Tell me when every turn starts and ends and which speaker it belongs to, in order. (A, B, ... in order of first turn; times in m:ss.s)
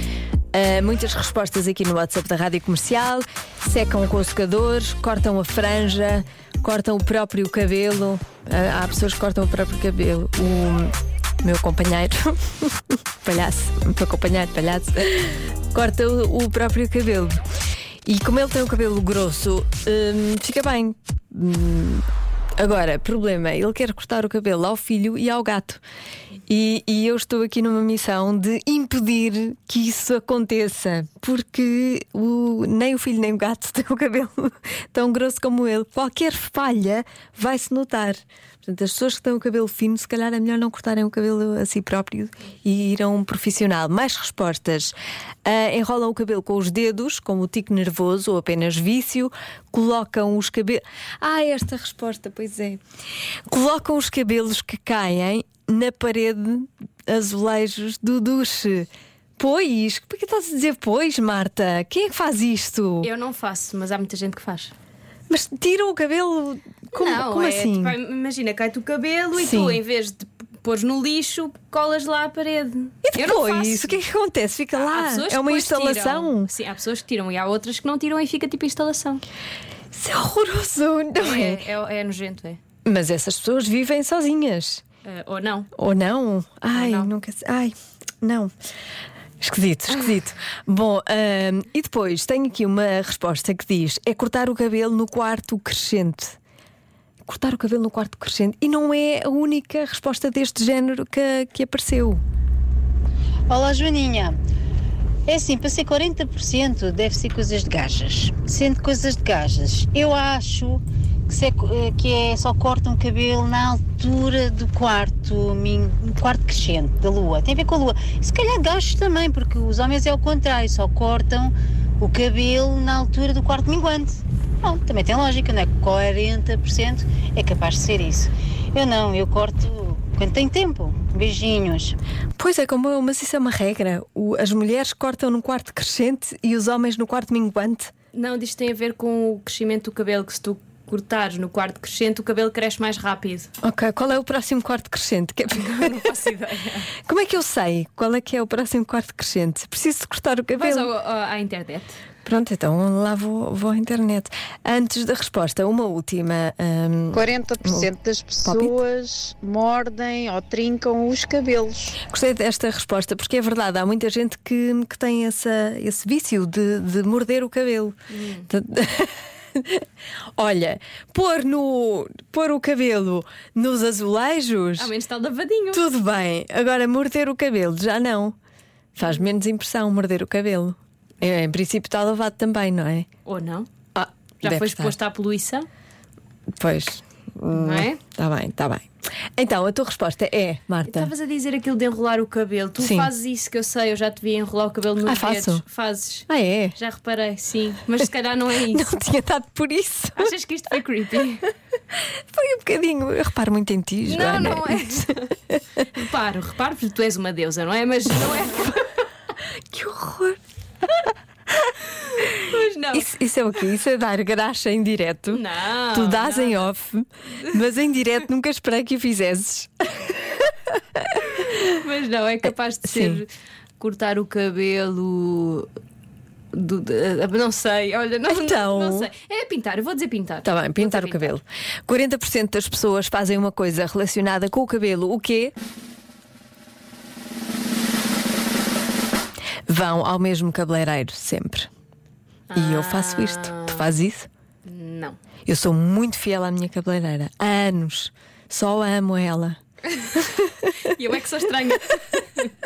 0:00.5-0:17.4 A
0:18.1-0:22.1 A
0:22.6-0:25.8 A
0:26.5-0:52.8 A
0:53.5-1:03.1 A
1:03.0-1:04.7 B
1:05.3-1:08.0 A
1:06.9-1:14.0 B
1:09.4-1:09.8 A
1:13.0-1:16.5 A
1:14.8-1:19.2 B
1:19.9-1:21.6 A
1:21.2-1:22.6 B
1:22.8-1:24.8 A
1:25.0-1:25.7 B
1:25.8-1:28.5 A
1:26.7-1:27.1 B
1:29.4-1:36.4 A
1:37.3-1:42.2 A
1:43.5-1:44.4 C
1:45.3-2:12.0 C
2:12.4-2:17.9 A
2:18.1-2:23.5 B
2:23.6-2:26.1 A
2:25.5-2:26.9 B
2:27.0-2:30.9 A
2:30.6-2:32.0 B
2:32.2-2:37.9 A
2:37.1-2:40.7 D
2:37.4-2:38.3 C
2:38.4-2:38.8 A
2:38.9-2:41.8 C
2:42.1-2:48.0 A
2:48.1-2:48.5 B
2:48.5-2:49.8 A
2:50.4-2:54.9 A
2:54.8-2:55.8 B
2:55.7-2:58.4 A
2:59.0-3:03.1 A
3:03.3-3:03.7 B
3:04.0-3:05.0 A
3:04.4-3:05.7 B
3:06.6-3:11.1 A
3:07.5-3:08.0 B
3:10.9-3:18.9 B
3:12.8-3:13.1 A
3:15.0-3:15.6 A
3:16.3-3:16.8 A
3:18.7-3:20.3 A
3:20.2-3:21.5 B
3:22.3-3:25.1 A
3:24.1-3:25.4 B
3:25.9-3:29.1 B
3:29.7-3:30.4 A
3:32.0-3:33.1 B
3:32.9-3:41.5 A
3:35.3-3:36.7 B
3:41.2-3:45.7 B
3:42.8-3:43.2 A
3:46.5-3:51.4 B
3:48.3-3:49.1 A
3:50.4-3:55.5 A
3:59.7-4:01.7 A
4:02.5-4:03.9 B
4:02.5-4:04.3 A
4:04.6-4:05.2 B
4:05.5-4:09.6 A
4:10.8-4:12.5 B